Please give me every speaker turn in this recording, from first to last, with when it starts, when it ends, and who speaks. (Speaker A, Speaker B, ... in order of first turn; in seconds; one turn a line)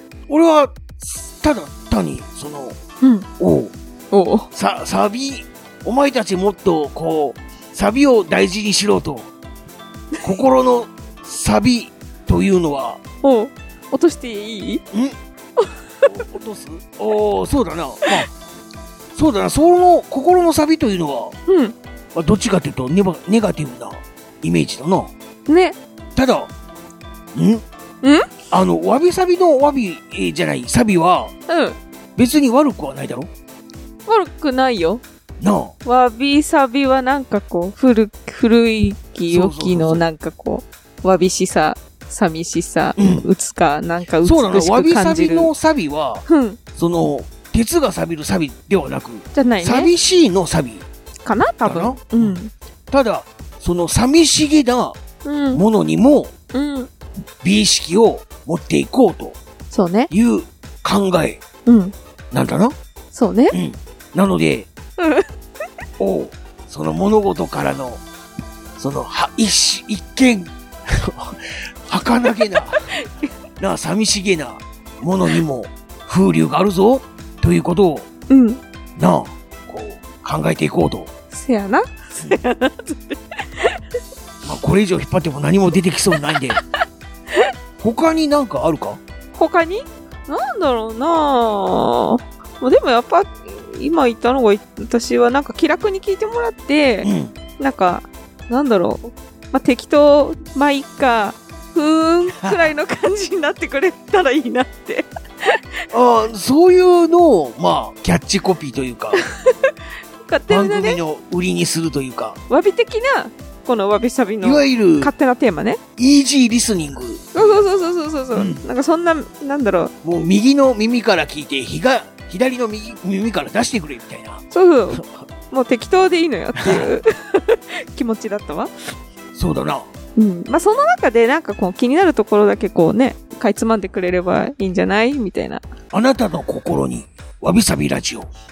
Speaker A: 0.3-2.8
Speaker B: 3.0-3.3
Speaker A: 3.4-3.7
Speaker B: 4.1-4.5
Speaker A: 4.5-9.3
Speaker A: 10.2-13.0
Speaker B: 13.2-14.8
Speaker A: 14.9-15.2
Speaker B: 15.6-16.2
Speaker A: 16.1-18.3
Speaker A: 19.1-21.4
Speaker B: 21.5-21.7
Speaker A: 22.1-25.1
Speaker B: 25.5-25.8
Speaker A: 26.1-26.5
Speaker A: 27.3-27.6
Speaker B: 28.0-28.3
Speaker A: 28.5-31.3
Speaker B: 31.5-31.8
Speaker A: 32.2-33.3
Speaker B: 34.0-35.0
Speaker A: 35.4-35.7
Speaker B: 35.8-45.5
Speaker A: 39.3-40.0
Speaker A: 43.0-43.3
Speaker A: 44.2-50.8
Speaker B: 46.2-46.6
Speaker B: 49.3-49.9
Speaker B: 51.2-52.5
Speaker A: 51.6-55.0
Speaker B: 55.2-55.6
Speaker A: 55.5-56.3
Speaker B: 56.5-56.9
Speaker A: 57.4-59.4
Speaker B: 59.7-60.1
Speaker A: 60.1-61.4
Speaker B: 61.6-61.9
Speaker A: 62.3-62.7
Speaker B: 63.1-63.5
Speaker A: 63.5-64.7
Speaker B: 65.0-65.3
Speaker A: 66.0-68.0
Speaker A: 68.8-73.0
Speaker A: 73.6-78.1
Speaker B: 78.3-78.6
Speaker A: 79.0-81.1
Speaker B: 81.3-83.7
Speaker A: 84.4-86.6
Speaker A: 87.8-89.0
Speaker B: 89.3-105.6
Speaker A: 97.0-97.3
Speaker A: 105.9-109.2
Speaker B: 109.2-111.0
Speaker A: 110.5-112.4
Speaker B: 112.5-115.8
Speaker A: 114.4-115.1
Speaker A: 116.0-117.8
Speaker B: 117.3-119.9
Speaker A: 118.3-118.6
Speaker A: 120.0-125.1
Speaker B: 124.5-128.7
Speaker A: 126.6-126.9
Speaker A: 129.3-129.9
Speaker B: 130.2-135.6
Speaker A: 135.9-138.3